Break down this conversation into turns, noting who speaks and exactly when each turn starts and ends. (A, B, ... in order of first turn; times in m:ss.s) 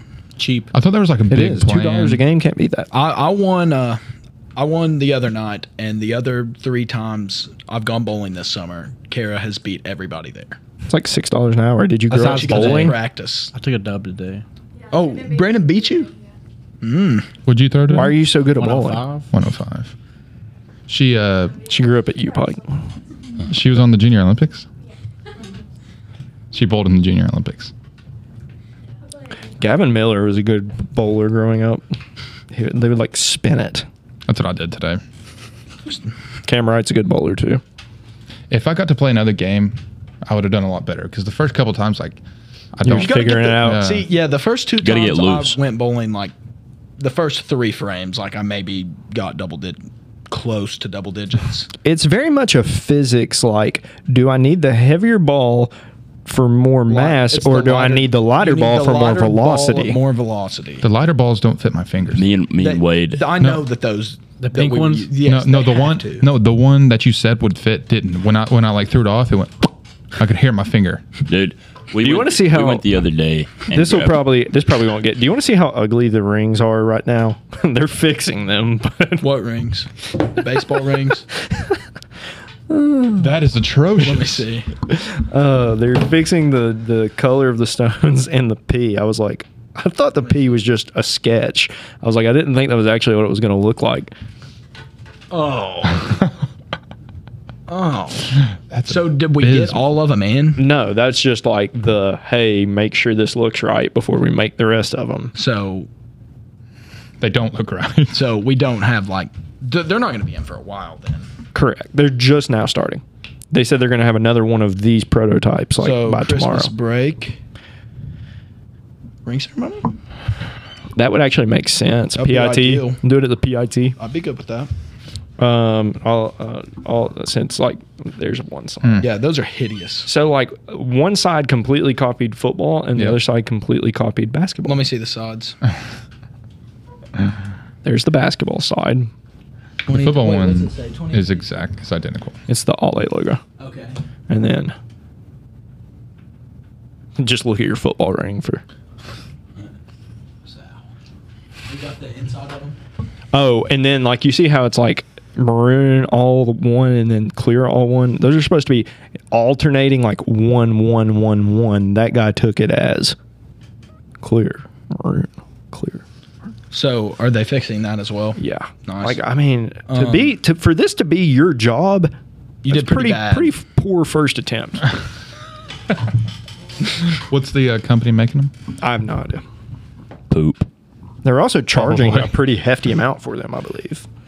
0:00.4-0:00.7 A
0:00.7-0:02.2 B
0:01.3-0:02.9 C
0:02.9-0:04.0 D
0:04.6-0:10.6 D
0:10.9-0:13.0 C
0:12.1-0:13.5 D
0:12.1-0:14.4 A
0:14.9-0:16.1 D
0:16.8-0:17.3 D
0:17.4-0:18.2 B
0:17.9-0:19.0 C
0:18.5-0:19.3 A
0:19.3-0:19.9 B
0:20.9-0:21.6 B
0:21.6-0:22.8 C
0:23.5-0:24.7 B
0:26.5-0:27.7 B
0:29.6-0:31.8 C
0:32.5-0:33.9 C
0:34.3-0:35.0 B
0:36.4-0:37.6 C
0:38.5-0:42.2 B
0:42.7-0:44.1 B
0:42.8-0:43.8 C
0:42.9-0:46.3 D
0:44.8-0:45.6 E
0:47.0-0:51.7 D
0:51.8-0:55.7 C
0:56.2-1:00.0 C
0:56.9-1:00.8 D
1:00.8-1:02.3 B
1:02.1-1:03.3 E
1:02.6-1:06.3 D
1:03.4-1:03.6 B
1:04.4-1:05.1 A
1:05.2-1:11.0 B
1:11.2-1:14.4 E
1:12.0-1:13.0 C
1:13.7-1:19.3 C
1:19.2-1:21.2 D
1:21.4-1:21.8 C
1:22.7-1:23.3 C
1:23.2-1:24.5 B
1:24.0-1:24.7 D
1:24.9-1:34.1 C
1:35.3-1:36.0 D
1:37.7-1:40.6 D
1:38.7-1:39.8 B
1:40.6-1:45.3 C
1:45.4-1:45.9 D
1:47.2-1:48.2 B
1:48.1-1:51.3 D
1:51.5-1:56.7 C
1:55.8-1:57.4 D
1:59.2-1:59.9 D
2:01.0-2:04.0 C
2:02.1-2:03.0 D
2:04.0-2:04.7 D
2:05.4-2:09.1 C
2:08.8-2:09.1 B
2:09.0-2:10.1 D
2:10.0-2:14.8 C
2:12.9-2:13.2 B
2:14.6-2:15.6 D
2:17.8-2:19.1 C
2:19.9-2:21.1 D
2:19.9-2:22.4 B
2:20.0-2:21.4 A
2:22.5-2:23.4 C
2:23.6-2:24.0 D
2:24.3-2:24.8 C
2:27.2-2:28.6 C
2:31.6-2:32.8 D
2:33.3-2:43.2 C
2:44.2-2:46.0 C
2:46.7-2:49.2 D
2:48.4-2:52.1 C
2:49.9-2:50.3 D
2:52.6-2:53.5 D
2:52.7-2:54.8 C
2:57.1-2:58.5 B
2:58.8-2:59.4 C
3:00.3-3:00.7 E
3:01.2-3:04.0 C
3:01.7-3:02.3 B